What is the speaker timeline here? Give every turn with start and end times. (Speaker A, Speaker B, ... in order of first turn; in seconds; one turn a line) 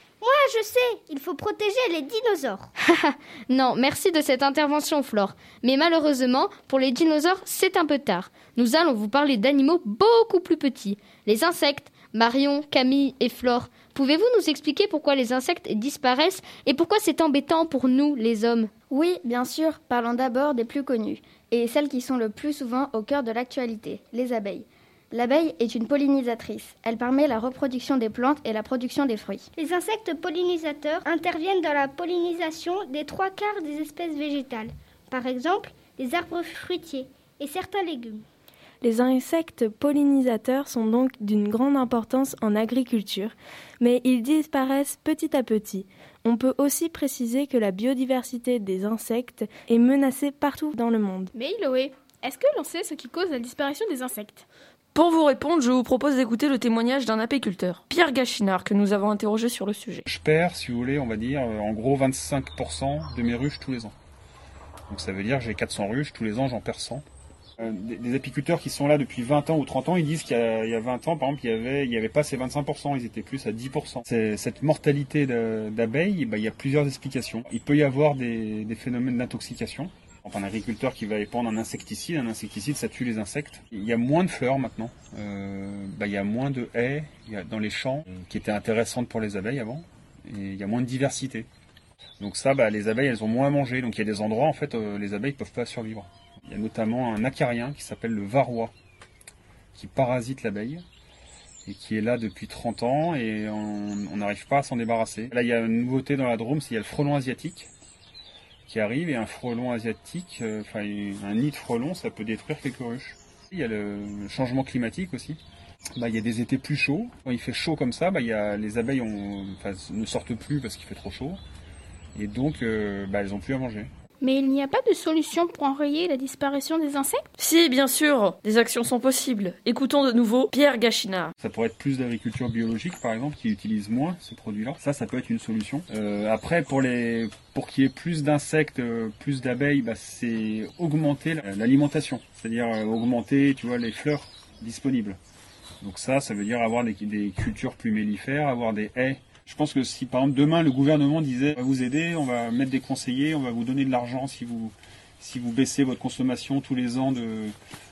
Speaker A: 0.2-2.7
Speaker B: 2.9-18.7
Speaker C: 18.9-29.5
Speaker A: 29.6-38.2
Speaker D: 38.8-51.3
Speaker E: 51.3-54.5
Speaker F: 55.0-60.0
Speaker G: 60.1-63.9
Speaker G: 64.9-67.0
Speaker G: 67.6-91.5
Speaker G: 92.2-98.7
Speaker G: 99.8-100.8
Speaker G: 101.7-107.7
Speaker G: 108.7-115.4
Speaker G: 116.0-121.4
Speaker G: 122.2-123.9
Speaker E: 124.2-127.3
Speaker F: 127.4-131.3
Speaker G: 131.4-145.2
Speaker G: 145.8-157.5